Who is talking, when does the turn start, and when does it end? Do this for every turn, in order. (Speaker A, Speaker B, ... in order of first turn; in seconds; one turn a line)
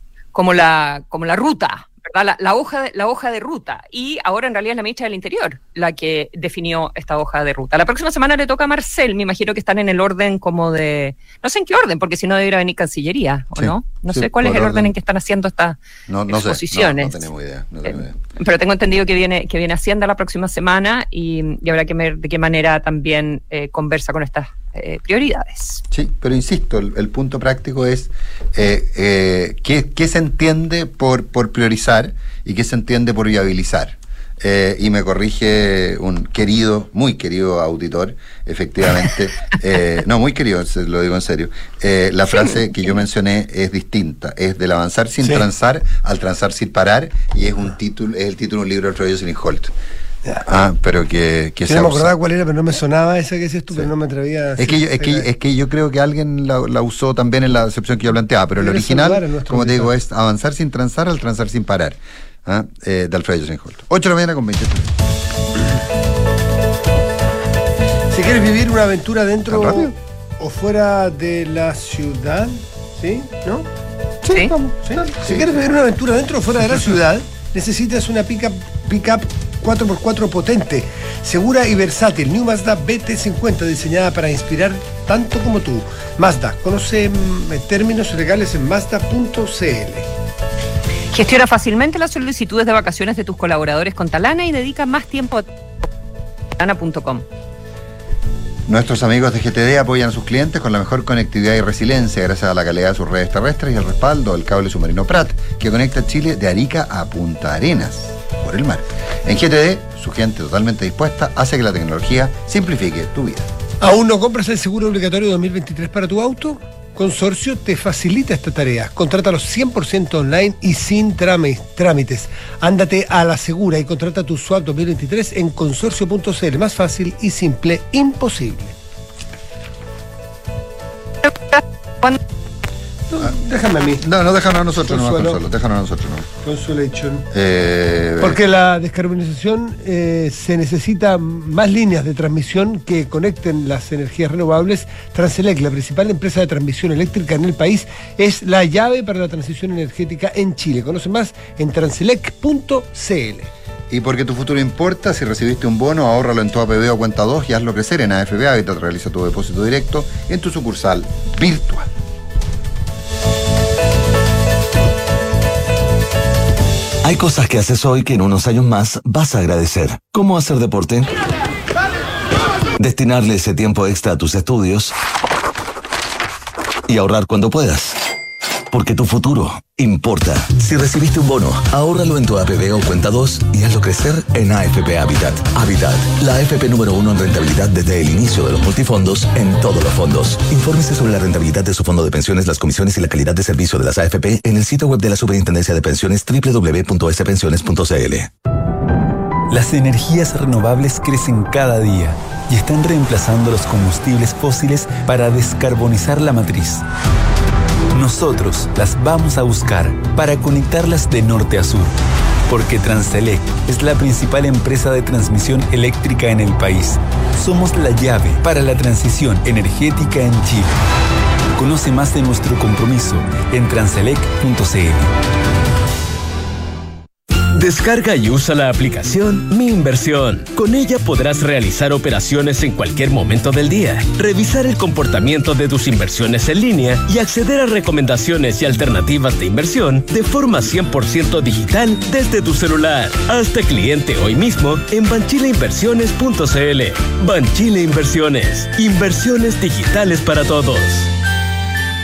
Speaker A: 0.3-17.2
Speaker B: 13.6-14.9
Speaker B: 16.1-18.2
Speaker A: 17.9-25.8
Speaker B: 25.9-49.7
Speaker B: 50.4-52.1
Speaker C: 51.6-55.3
Speaker B: 54.6-64.9
Speaker C: 58.6-59.9
Speaker C: 68.1-73.7
Speaker B: 69.5-69.9
Speaker B: 74.3-75.6
Speaker C: 74.8-90.1
Speaker A: 91.1-95.5
Speaker A: 96.6-97.2
Speaker B: 98.7-113.5
Speaker C: 113.8-128.8
Speaker A: 131.5-132.2
Speaker C: 133.1-134.1
Speaker B: 134.0-136.3
Speaker C: 134.8-135.4
Speaker C: 136.4-137.3
Speaker B: 137.3-138.4
Speaker C: 138.2-153.5
Speaker B: 153.9-161.9
Speaker D: 167.0-171.1
Speaker D: 172.8-174.9
Speaker D: 176.9-178.0
Speaker D: 178.7-198.3
Speaker E: 199.5-206.8
Speaker E: 207.9-211.9
Speaker E: 212.5-220.8
Speaker E: 221.6-225.1
Speaker F: 227.5-251.1